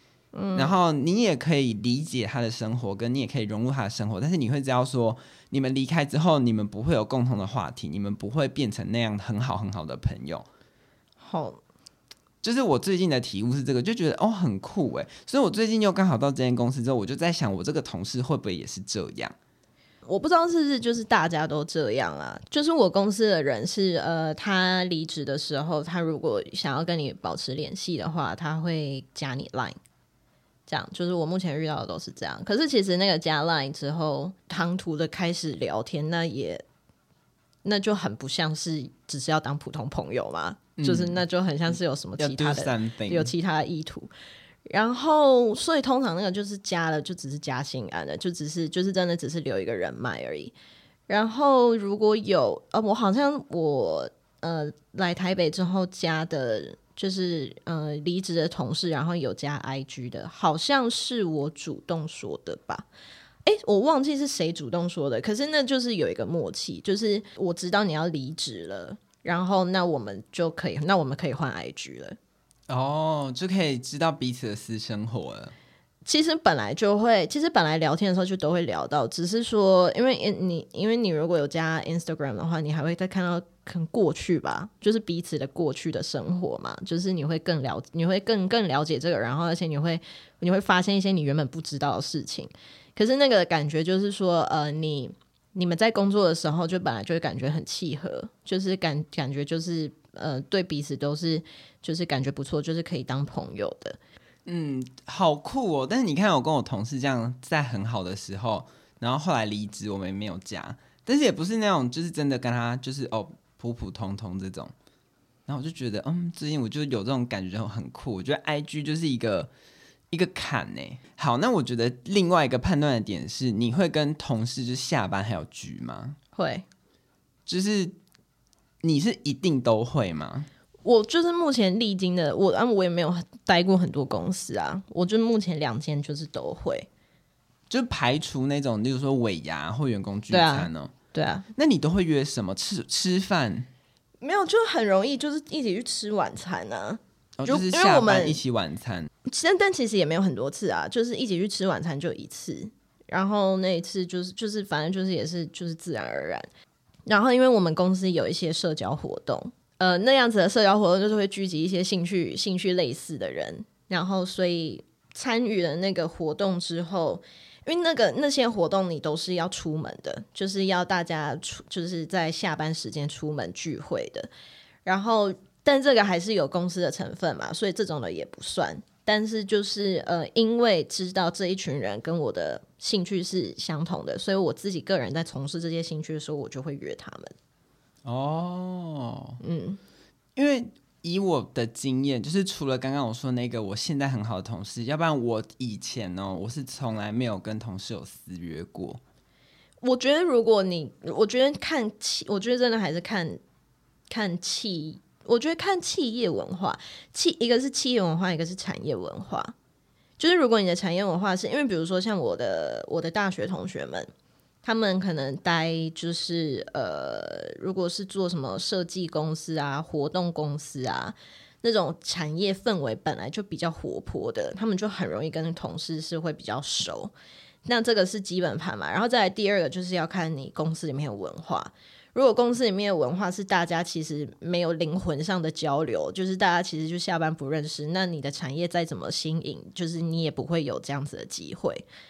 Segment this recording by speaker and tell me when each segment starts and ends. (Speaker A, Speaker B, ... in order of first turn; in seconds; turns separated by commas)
Speaker A: 0.3-0.8, Speaker B: 0.5-10.4, Speaker A: 11.2-11.6, Speaker B: 12.4-19.3, Speaker A: 20.1-29.8, Speaker A: 30.7-36.6, Speaker A: 37.6-44.1, Speaker B: 40.8-41.2, Speaker B: 42.2-43.3, Speaker A: 44.7-50.5, Speaker A: 51.1-62.9, Speaker A: 63.4-72.2, Speaker B: 72.7-75.5, Speaker A: 76.0-104.0, Speaker B: 104.5-114.7, Speaker B: 115.5-119.5, Speaker B: 120.1-126.2, Speaker A: 126.3-126.7, Speaker B: 127.5-127.9, Speaker B: 128.8-130.5, Speaker A: 130.8-136.9, Speaker B: 137.7-140.9, Speaker A: 140.3-141.5, Speaker B: 141.6-143.7, Speaker A: 144.2-148.4, Speaker B: 147.4-149.1, Speaker A: 149.2-156.5, Speaker A: 157.1-174.3, Speaker A: 174.8-187.3, Speaker B: 188.1-189.4, Speaker A: 189.4-189.8, Speaker B: 190.3-199.0, Speaker A: 199.8-203.4, Speaker A: 204.1-209.5, Speaker A: 210.2-214.1, Speaker A: 214.6-227.1, Speaker A: 227.6-241.8